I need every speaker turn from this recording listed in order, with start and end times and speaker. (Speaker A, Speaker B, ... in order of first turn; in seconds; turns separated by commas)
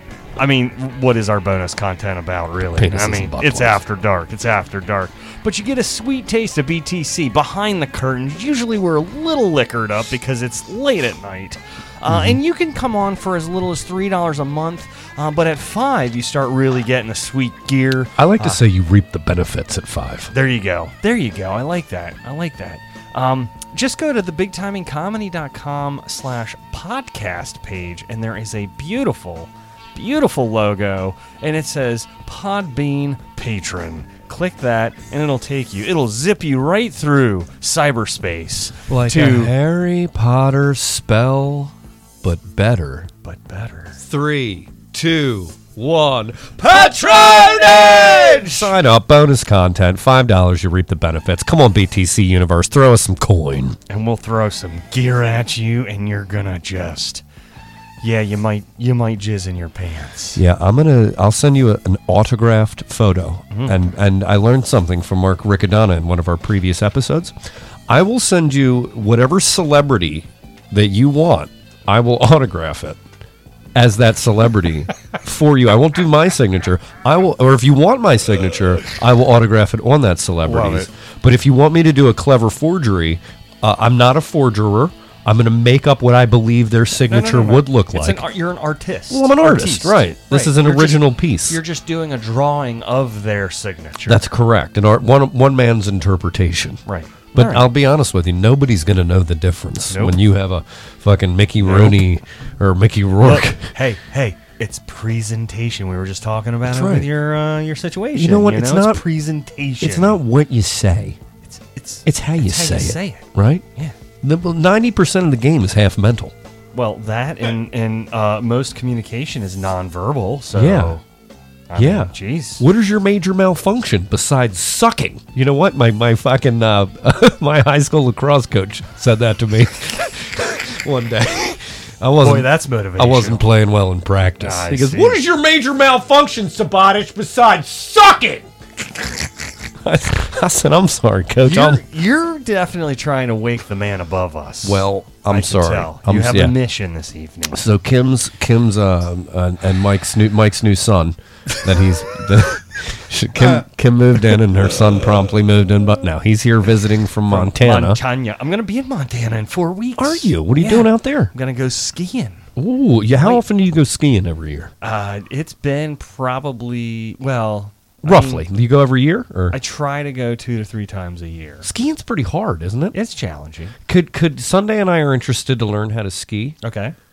Speaker A: 0.4-18.6, Speaker B: 2.7-3.8, Speaker B: 12.1-12.4, Speaker B: 18.1-20.3, Speaker A: 20.3-39.5, Speaker B: 38.9-43.1, Speaker A: 43.2-44.0, Speaker B: 44.0-53.8, Speaker A: 46.7-48.7, Speaker A: 53.9-57.2, Speaker A: 58.0-60.4, Speaker B: 60.4-67.3, Speaker A: 63.5-63.8, Speaker B: 67.9-73.0, Speaker B: 73.7-88.3, Speaker A: 80.4-80.9, Speaker A: 87.0-94.2, Speaker B: 89.1-91.6, Speaker B: 94.0-96.8, Speaker A: 96.8-97.7, Speaker B: 97.3-103.7, Speaker A: 99.9-100.2, Speaker A: 101.6-102.0, Speaker A: 103.2-110.2, Speaker B: 106.7-107.1, Speaker B: 108.1-109.0, Speaker B: 109.8-111.2, Speaker A: 111.4-114.0, Speaker B: 112.0-113.6, Speaker B: 114.2-116.3, Speaker A: 116.7-121.0, Speaker B: 120.5-121.0, Speaker A: 121.7-122.7, Speaker B: 121.8-139.3, Speaker A: 132.2-133.5, Speaker A: 134.4-135.2, Speaker B: 139.8-141.8, Speaker A: 141.4-147.7, Speaker B: 144.6-146.6, Speaker B: 147.5-158.0, Speaker A: 157.3-162.4, Speaker B: 160.0-161.3, Speaker B: 162.6-164.7, Speaker A: 163.1-163.4, Speaker A: 164.8-168.4, Speaker B: 168.0-169.6, Speaker A: 169.5-171.7, Speaker B: 171.6-172.9, Speaker A: 172.9-173.7, Speaker B: 173.9-176.6, Speaker A: 176.6-176.9